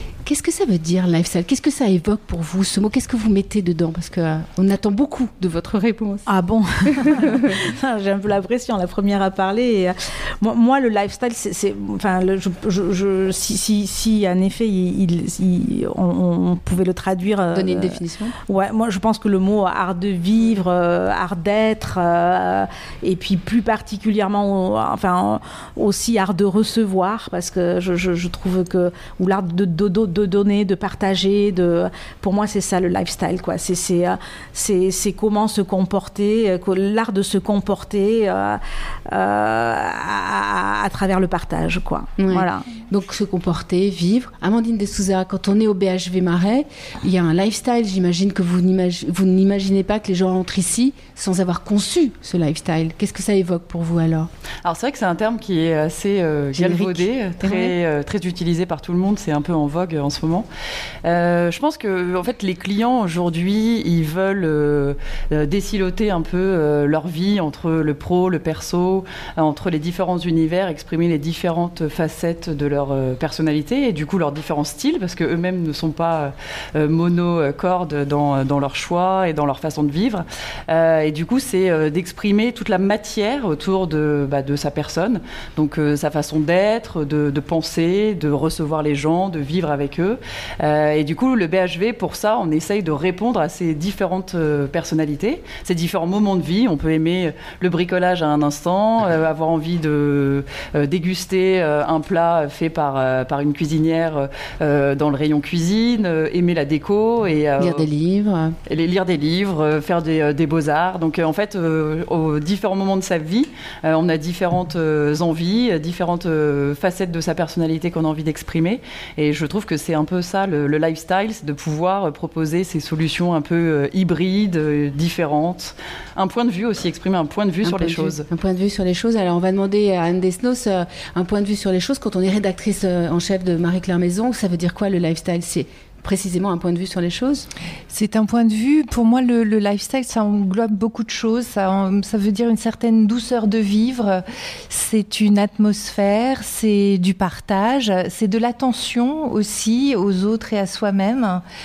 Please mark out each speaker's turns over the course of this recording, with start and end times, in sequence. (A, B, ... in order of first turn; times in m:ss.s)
0:00.2-0:06.2 A
0:06.2-0:42.7 B
0:06.9-0:07.6 A
0:17.5-0:18.3 A
0:42.2-0:54.3 A
0:54.6-1:00.5 C
0:56.5-0:57.7 A
1:01.0-1:47.9 C
1:47.6-1:48.6 A
1:48.7-2:08.2 C
2:07.6-2:17.5 A
2:17.9-2:31.4 D